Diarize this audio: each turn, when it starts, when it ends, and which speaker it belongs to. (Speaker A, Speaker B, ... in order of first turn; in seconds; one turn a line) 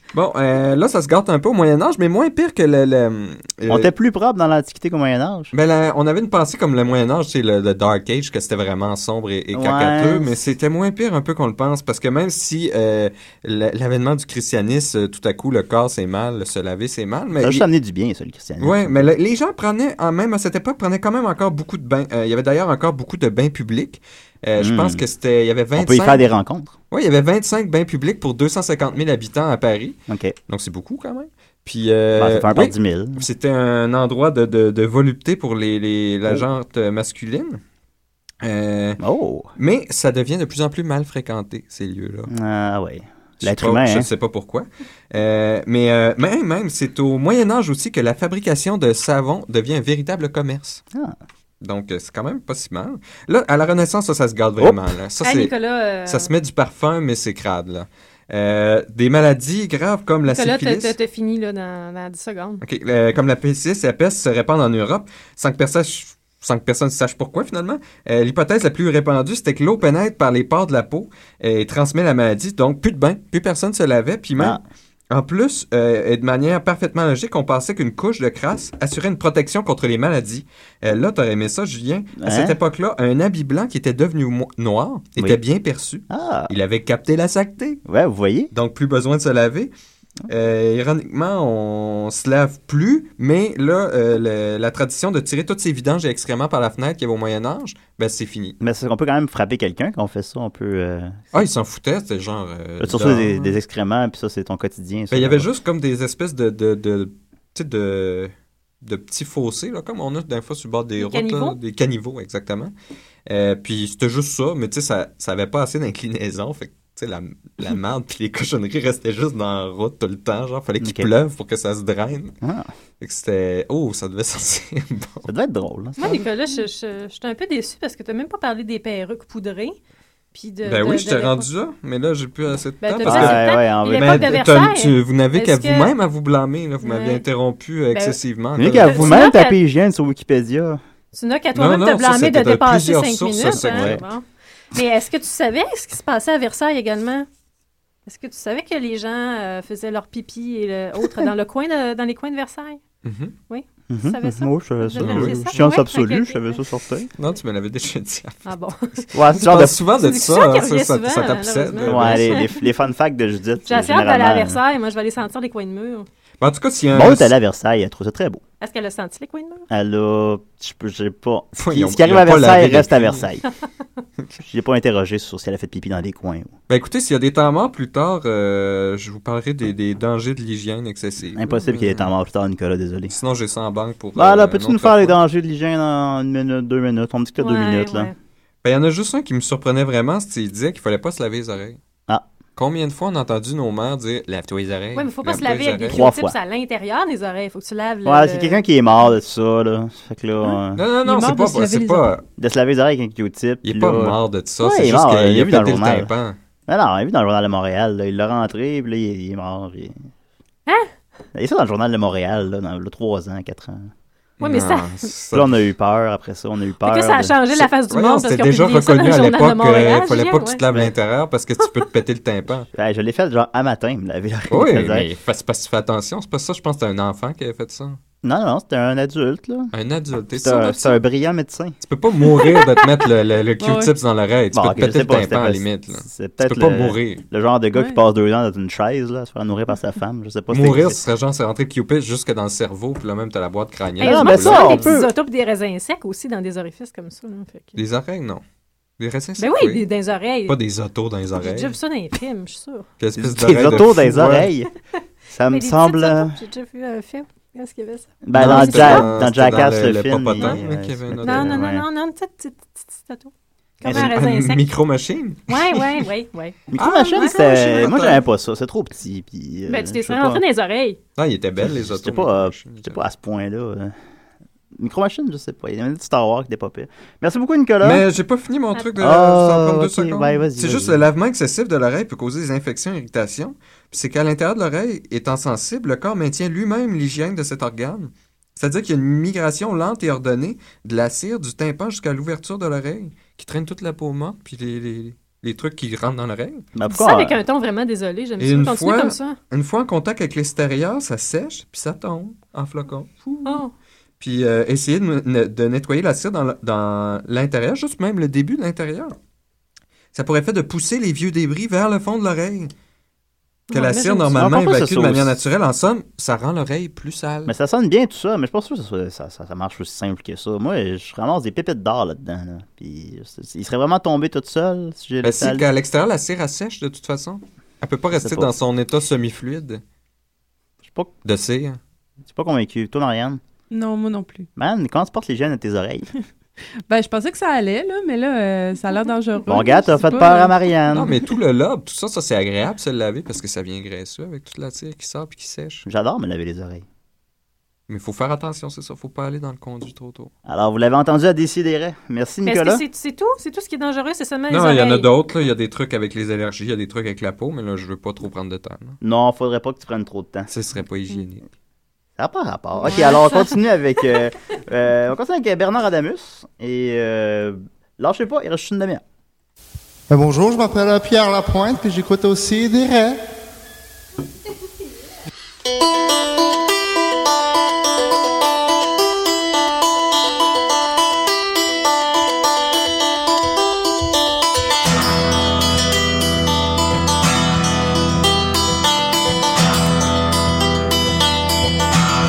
Speaker A: 0.1-3.9
Speaker B: 3.7-5.5
Speaker A: 5.5-17.6
Speaker B: 9.5-10.4
Speaker B: 17.4-19.1
Speaker A: 18.6-26.2
Speaker B: 24.6-25.0
Speaker B: 25.7-26.8
Speaker A: 26.9-30.0
Speaker B: 30.1-30.4
Speaker A: 30.5-37.6
Speaker B: 32.1-33.2
Speaker A: 38.4-39.0
Speaker B: 39.0-39.5
Speaker A: 39.6-42.3
Speaker B: 42.3-44.1
Speaker A: 43.4-50.8
Speaker A: 51.6-55.5
Speaker C: 55.2-56.3
Speaker A: 56.0-60.9
Speaker C: 60.3-62.6
Speaker A: 62.6-87.8
Speaker B: 82.2-82.6
Speaker B: 86.1-86.5
Speaker B: 87.8-88.5
Speaker A: 88.5-89.7
Speaker A: 90.3-98.6
Speaker B: 98.6-101.2
Speaker A: 101.3-103.5
Speaker B: 102.8-105.5
Speaker A: 105.1-112.7
Speaker C: 111.0-111.6
Speaker A: 113.3-122.3
Speaker B: 120.8-121.1
Speaker B: 122.4-122.7
Speaker A: 123.0-125.3
Speaker B: 125.2-126.3
Speaker C: 126.0-129.8
Speaker C: 130.3-131.5
Speaker A: 130.6-139.3
Speaker C: 132.8-135.9
Speaker B: 133.0-134.5
Speaker C: 136.8-137.2
Speaker C: 137.9-138.2
Speaker B: 138.6-140.8
Speaker C: 138.7-139.6
Speaker C: 141.1-147.3
Speaker A: 141.5-144.0
Speaker B: 143.5-144.0
Speaker C: 148.1-152.8
Speaker A: 153.0-153.3
Speaker C: 153.5-156.6
Speaker B: 153.9-157.1
Speaker A: 155.0-155.7
Speaker A: 157.2-158.4
Speaker C: 158.4-159.2
Speaker B: 159.1-159.8
Speaker A: 159.3-162.5
Speaker C: 159.9-162.5
Speaker B: 161.8-164.6
Speaker C: 163.7-166.1
Speaker A: 166.4-167.3
Speaker B: 166.9-168.4
Speaker C: 168.6-169.6
Speaker B: 169.7-173.4
Speaker A: 171.5-173.2
Speaker B: 174.4-176.5
Speaker A: 176.7-182.1
Speaker B: 181.3-183.1
Speaker A: 183.1-185.2
Speaker B: 184.2-188.1
Speaker C: 187.4-188.1
Speaker A: 188.6-191.8
Speaker A: 192.6-196.0
Speaker C: 194.9-198.6
Speaker B: 195.9-196.3
Speaker B: 198.0-200.8
Speaker A: 200.7-202.2
Speaker D: 201.0-202.1
Speaker B: 202.4-206.1
Speaker A: 203.6-206.4
Speaker B: 206.7-210.0
Speaker B: 211.3-213.9
Speaker A: 214.4-215.6
Speaker C: 214.4-215.1
Speaker B: 215.3-217.4
Speaker C: 216.8-220.6
Speaker A: 217.9-222.7
Speaker B: 222.7-225.1
Speaker A: 224.5-228.0
Speaker B: 228.2-229.7
Speaker A: 229.7-231.0
Speaker B: 230.3-231.8
Speaker A: 231.8-237.2
Speaker D: 233.6-233.9
Speaker B: 234.5-241.0
Speaker D: 237.7-238.0
Speaker A: 240.5-245.0
Speaker C: 244.0-247.8
Speaker B: 244.0-245.1
Speaker A: 247.8-248.4
Speaker A: 249.0-249.8
Speaker C: 249.4-250.6
Speaker A: 250.4-251.7
Speaker C: 251.4-252.9
Speaker A: 253.0-254.5
Speaker B: 253.2-254.7
Speaker B: 255.3-256.4
Speaker C: 255.5-259.1
Speaker B: 258.2-261.9
Speaker A: 258.3-261.6
Speaker C: 261.2-264.7
Speaker B: 263.8-264.1
Speaker A: 263.8-266.0
Speaker C: 265.5-267.9
Speaker B: 266.7-270.4
Speaker A: 266.8-268.2
Speaker C: 269.7-271.0
Speaker A: 271.2-273.0
Speaker B: 271.6-273.9
Speaker B: 274.7-278.0
Speaker A: 277.8-296.6
Speaker B: 279.0-281.0
Speaker B: 296.7-297.4
Speaker C: 296.9-299.4
Speaker A: 298.4-303.6
Speaker C: 303.4-303.7
Speaker A: 304.2-309.1
Speaker A: 310.1-312.7
Speaker C: 313.7-314.5
Speaker A: 313.7-317.5
Speaker B: 314.3-315.4
Speaker B: 317.4-325.7
Speaker A: 325.2-329.8
Speaker B: 328.1-328.5
Speaker B: 330.8-331.1
Speaker A: 331.2-331.8
Speaker B: 332.2-333.4
Speaker D: 333.7-334.5
Speaker B: 334.6-336.1
Speaker D: 336.9-340.6
Speaker B: 339.5-341.1
Speaker A: 340.9-345.8
Speaker B: 345.9-346.8
Speaker A: 347.9-350.3
Speaker B: 350.4-352.8
Speaker C: 352.4-355.1
Speaker A: 354.5-359.0
Speaker B: 359.0-360.5
Speaker A: 360.5-361.4
Speaker B: 362.2-369.0
Speaker C: 362.8-363.5
Speaker E: 370.1-373.2